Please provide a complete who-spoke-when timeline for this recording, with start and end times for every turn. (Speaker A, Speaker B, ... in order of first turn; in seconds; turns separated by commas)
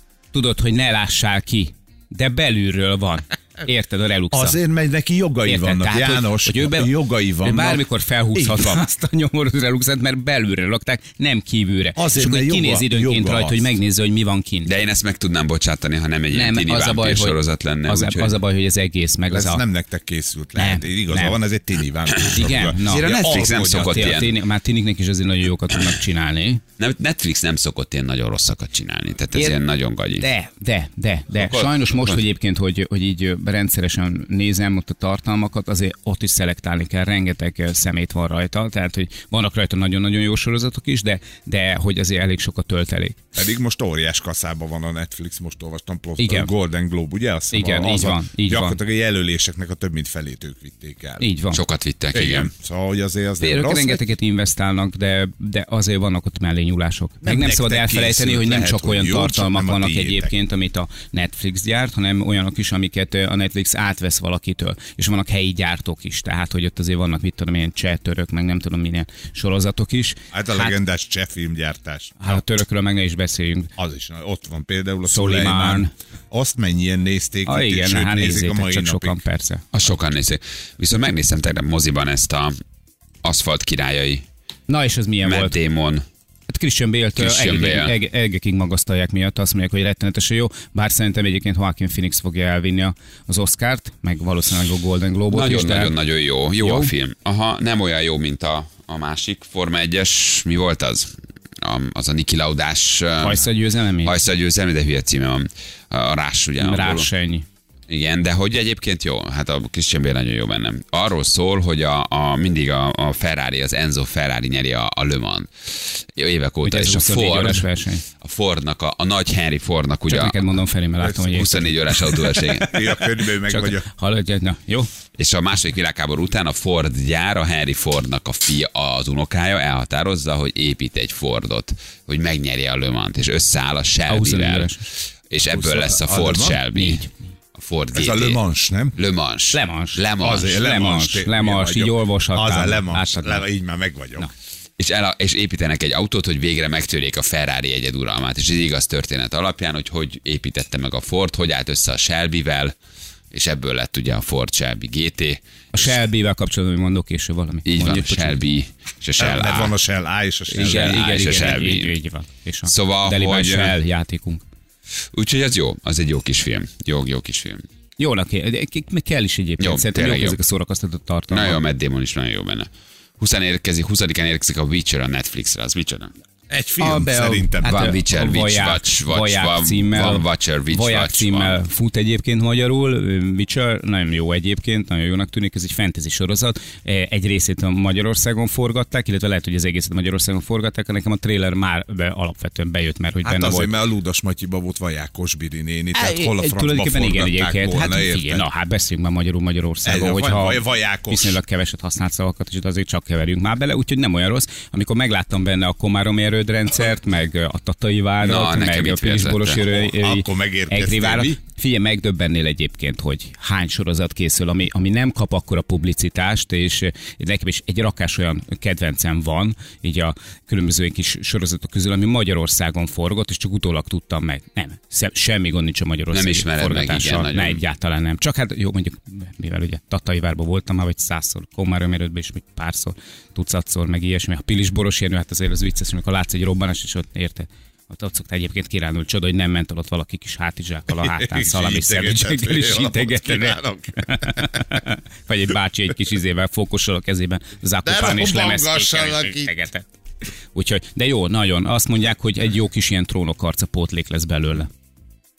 Speaker A: 0.3-4.6, Speaker B: 4.3-8.8, Speaker A: 5.5-14.7, Speaker B: 11.9-13.7, Speaker C: 14.6-18.4, Speaker A: 16.3-19.6, Speaker B: 19.3-24.2, Speaker A: 20.6-21.4, Speaker C: 22.1-24.3, Speaker A: 22.2-23.1, Speaker A: 23.8-26.6, Speaker C: 26.8-30.3, Speaker A: 30.2-43.2, Speaker C: 31.3-32.2, Speaker B: 43.3-51.3, Speaker A: 46.2-46.5, Speaker A: 47.5-48.8, Speaker A: 51.2-51.6, Speaker C: 51.5-52.5, Speaker B: 52.1-54.0, Speaker A: 53.4-70.7, Speaker B: 57.2-60.3, Speaker B: 70.3-72.4, Speaker A: 72.2-73.7, Speaker B: 73.8-79.2, Speaker A: 75.0-75.9, Speaker A: 77.5-79.6, Speaker C: 79.7-82.5, Speaker C: 83.2-84.2, Speaker A: 84.7-85.6, Speaker C: 85.2-86.0, Speaker A: 86.5-95.9, Speaker C: 87.2-87.9, Speaker C: 95.3-103.4, Speaker A: 96.6-96.9, Speaker A: 103.2-104.2, Speaker C: 104.0-107.1, Speaker A: 106.6-107.5, Speaker C: 107.9-122.7, Speaker A: 116.6-118.0, Speaker A: 120.1-124.9, Speaker B: 122.6-123.9, Speaker C: 125.2-138.4, Speaker A: 134.1-134.8, Speaker B: 135.4-136.6, Speaker A: 136.7-137.1, Speaker B: 137.9-139.0, Speaker C: 138.9-140.6, Speaker A: 139.5-143.4, Speaker B: 140.2-144.3, Speaker C: 144.8-152.7, Speaker C: 153.3-156.0, Speaker A: 155.7-158.4, Speaker C: 157.7-159.7, Speaker B: 159.2-161.3, Speaker A: 160.5-164.4, Speaker C: 160.6-161.9, Speaker C: 162.7-163.8, Speaker C: 165.1-167.6, Speaker A: 168.0-171.6, Speaker C: 169.6-170.4, Speaker C: 171.3-176.1, Speaker B: 176.5-177.9, Speaker A: 176.8-193.7, Speaker C: 177.6-181.6, Speaker B: 193.2-198.5, Speaker A: 195.9-249.9, Speaker B: 199.8-201.4, Speaker C: 208.2-209.6, Speaker B: 209.6-211.4, Speaker C: 226.1-227.6, Speaker B: 240.9-244.6, Speaker B: 247.8-249.6, Speaker A: 250.5-254.7